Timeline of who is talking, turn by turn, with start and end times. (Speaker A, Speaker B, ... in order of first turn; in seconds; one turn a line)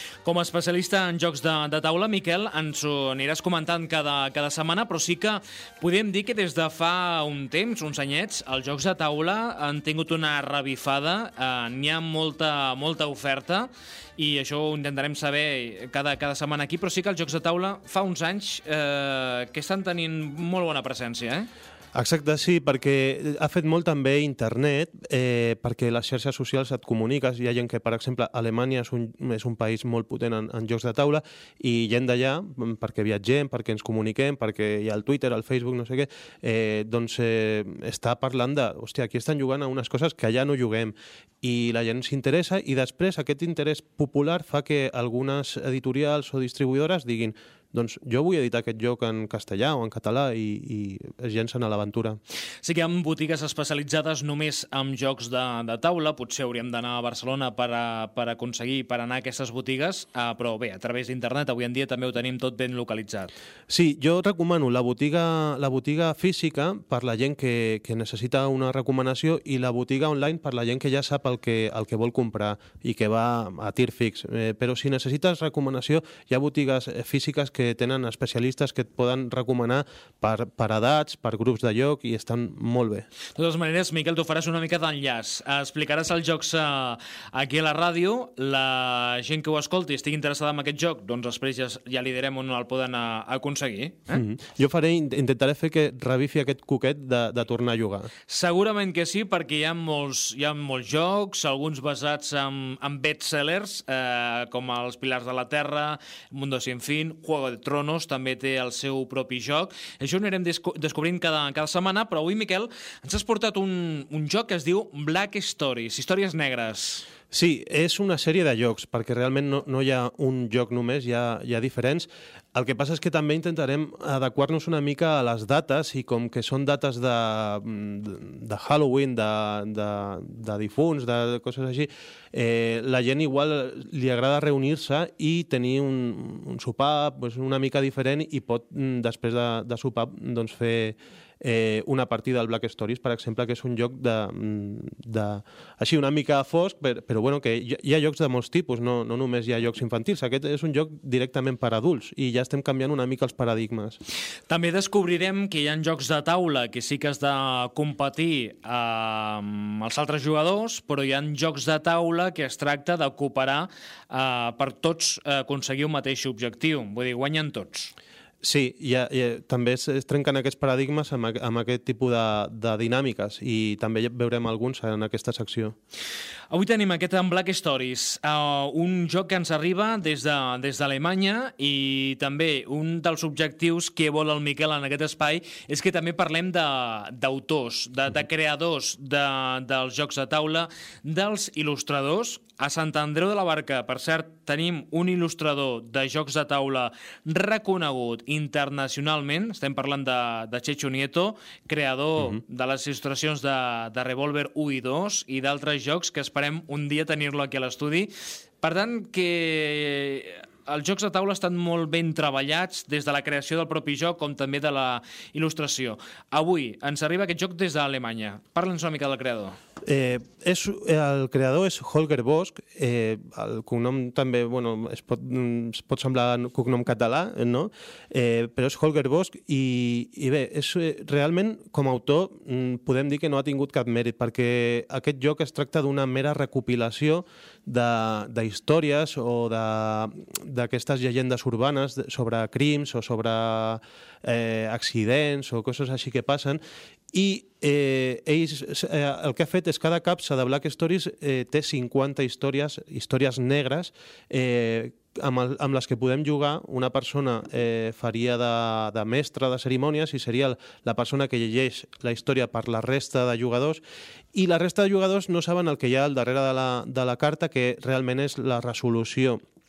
Speaker A: 0.2-21.5
Speaker B: 21.9-52.2
Speaker A: 52.6-63.3
Speaker B: 63.7-83.1
Speaker A: 83.4-94.2
Speaker B: 94.1-98.1
Speaker A: 98.3-117.0
Speaker B: 117.3-154.0
Speaker A: 154.5-167.9
Speaker B: 168.4-175.8
Speaker A: 176.5-208.1
Speaker A: 208.6-219.6
Speaker B: 219.9-246.6
Speaker B: 247.1-263.8
Speaker B: 264.3-269.4